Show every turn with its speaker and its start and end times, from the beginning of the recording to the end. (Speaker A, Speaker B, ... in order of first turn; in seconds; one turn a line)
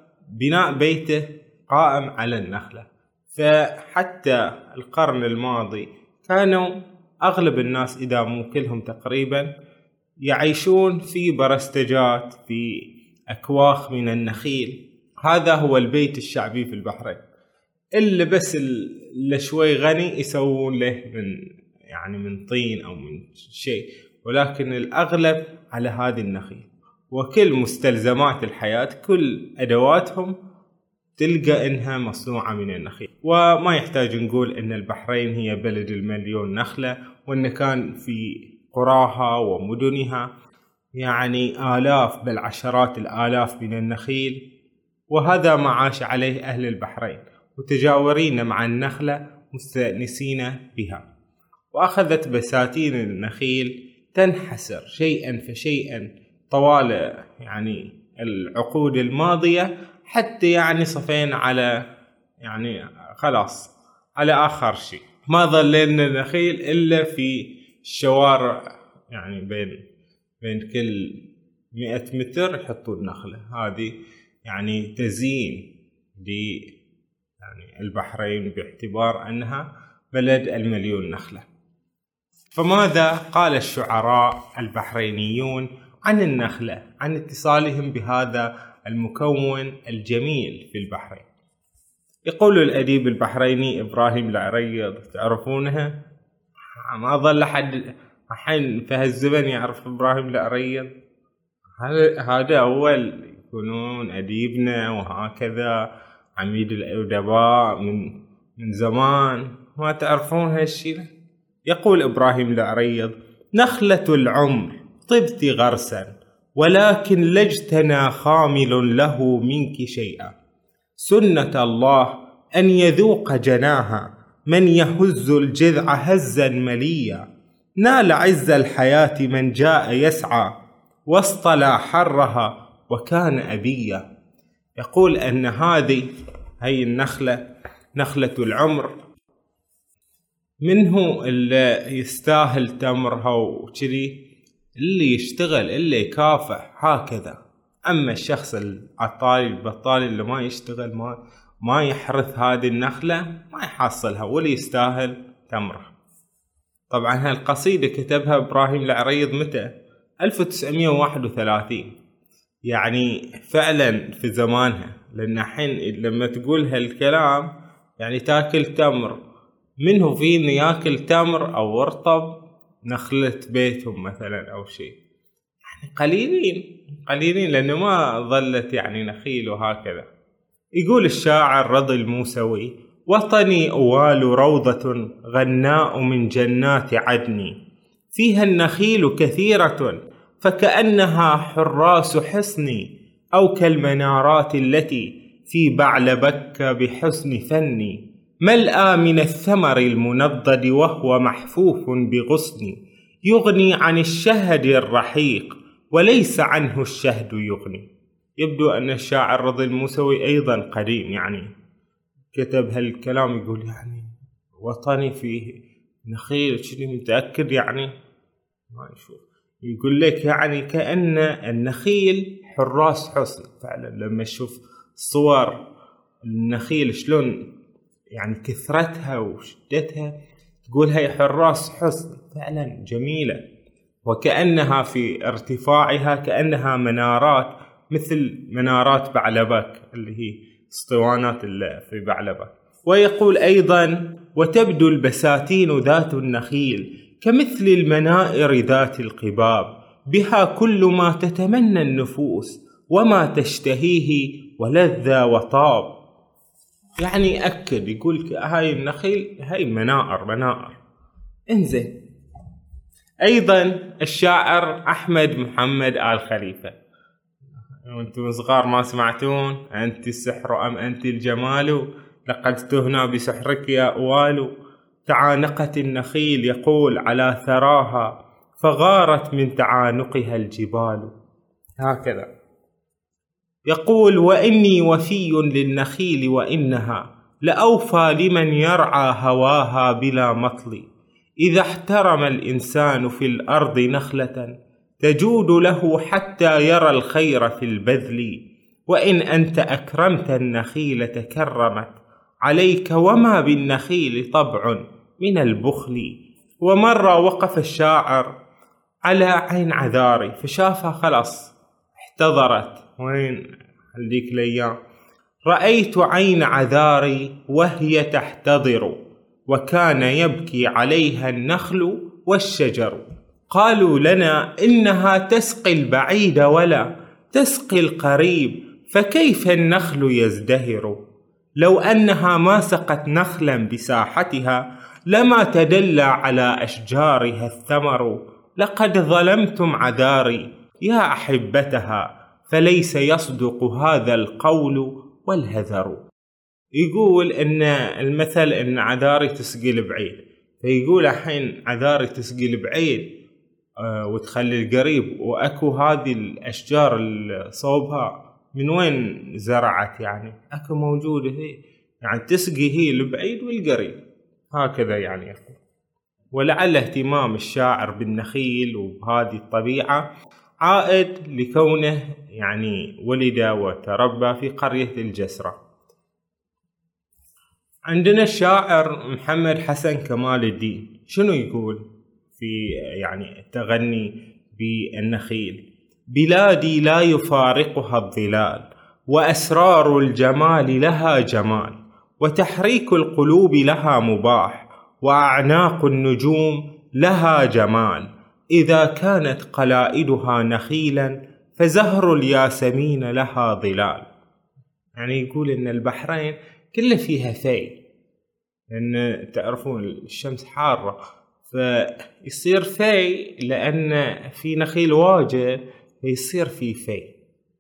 Speaker A: 0.4-6.7
Speaker A: 7.2-9.5
Speaker A: 10.3-17.2
Speaker A: 18.0-21.4
Speaker A: 21.9-30.4
Speaker A: 31.2-40.3
Speaker A: 41.0-44.4
Speaker A: 45.1-51.0
Speaker A: 51.7-61.7
Speaker A: 62.4-68.6
Speaker A: 69.1-69.7
Speaker A: 70.4-71.2
Speaker A: 71.8-73.9
Speaker A: 74.5-75.7
Speaker A: 76.2-76.6
Speaker A: 77.4-81.5
Speaker A: 82.5-91.3
Speaker A: 92.3-95.9
Speaker A: 96.8-100.9
Speaker A: 101.8-105.7
Speaker A: 106.4-108.1
Speaker A: 108.6-111.1
Speaker A: 111.7-120.3
Speaker A: 121.0-127.2
Speaker A: 127.8-130.5
Speaker A: 131.1-134.1
Speaker A: 134.8-136.1
Speaker A: 136.6-137.4
Speaker A: 137.9-138.9
Speaker A: 140.7-144.2
Speaker A: 144.8-155.9
Speaker A: 156.9-159.7
Speaker A: 160.2-161.9
Speaker A: 162.7-169.2
Speaker A: 169.8-172.3
Speaker A: 172.9-175.0
Speaker A: 175.7-180.1
Speaker A: 180.8-187.5
Speaker A: 188.1-207.9
Speaker A: 208.4-211.5
Speaker A: 212.3-214.1
Speaker A: 214.6-215.5
Speaker A: 216.1-217.9
Speaker A: 218.7-225.6
Speaker A: 226.2-227.3
Speaker A: 228.2-230.1
Speaker A: 230.7-233.4
Speaker A: 234.1-255.9
Speaker A: 257.0-260.8
Speaker A: 261.5-261.9
Speaker A: 263.2-266.8
Speaker A: 267.9-274.5
Speaker A: 275.1-281.1
Speaker A: 281.8-282.3
Speaker A: 283.7-290.9
Speaker A: 291.4-308.3
Speaker A: 309.1-313.4
Speaker A: 313.9-314.7
Speaker A: 315.5-319.0
Speaker A: 319.5-331.0
Speaker A: 331.6-346.0
Speaker A: 346.8-353.1
Speaker A: 353.8-364.0
Speaker A: 364.5-365.6
Speaker A: 366.3-370.0
Speaker A: 370.6-375.6
Speaker A: 377.9-381.8
Speaker A: 382.4-385.6
Speaker A: 386.1-404.1
Speaker A: 405.0-407.8
Speaker A: 408.7-417.1